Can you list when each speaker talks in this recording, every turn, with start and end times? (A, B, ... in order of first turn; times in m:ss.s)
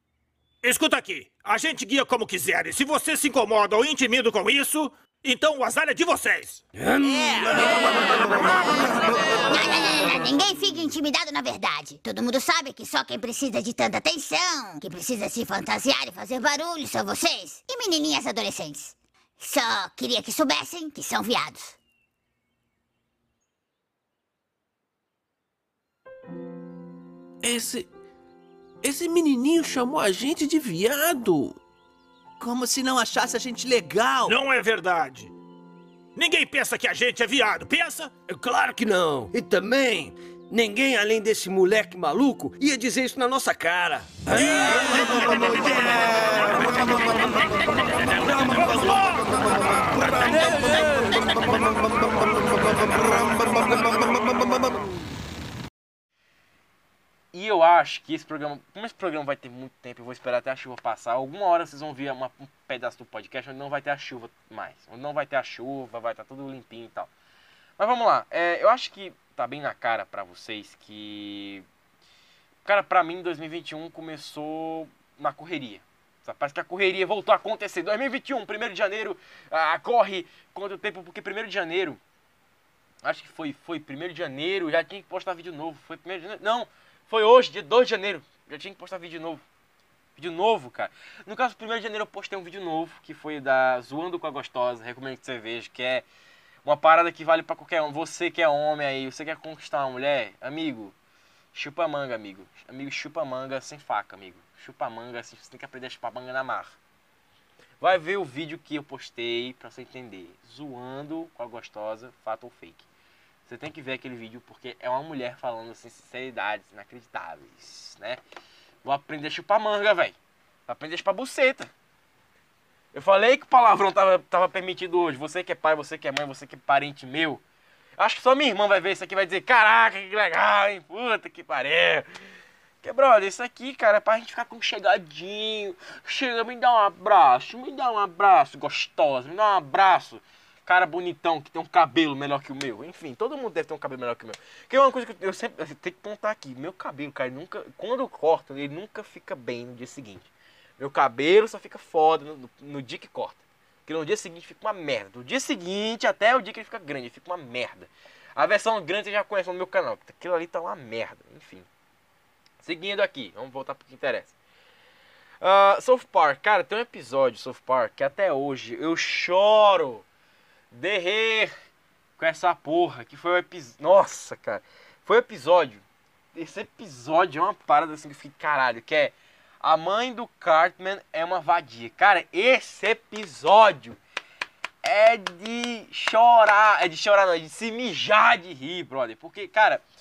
0:00.6-0:06.6 A
0:06.8-0:08.6 B
0:07.0-0:21.8 C
0:27.4-0:27.9 D
0:28.8-0:31.6 D
0:32.4-0:34.4 D
0:34.3-0:35.3 A
0:36.2-0:38.1 A
0:38.3-0:46.0 B
0:44.3-0:44.9 A
0:45.4-0:45.9 A
0:57.3-1:07.1 E
1:07.8-1:11.6 E
1:12.7-1:22.0 E
1:23.0-1:29.4 E
1:30.2-1:36.0 E
1:36.6-1:40.9 E
1:41.5-1:46.8 E
1:47.8-1:52.9 E
1:53.5-1:58.2 E
1:58.8-2:00.2 E
2:00.7-2:01.7 E
2:02.9-2:07.4 E
2:08.0-2:12.1 E
2:12.8-2:41.7 E
2:42.6-2:44.3 E
2:45.4-2:50.1 E
2:50.7-2:51.5 E
2:52.2-2:55.8 E
2:56.4-3:04.0 E
3:04.8-3:09.8 E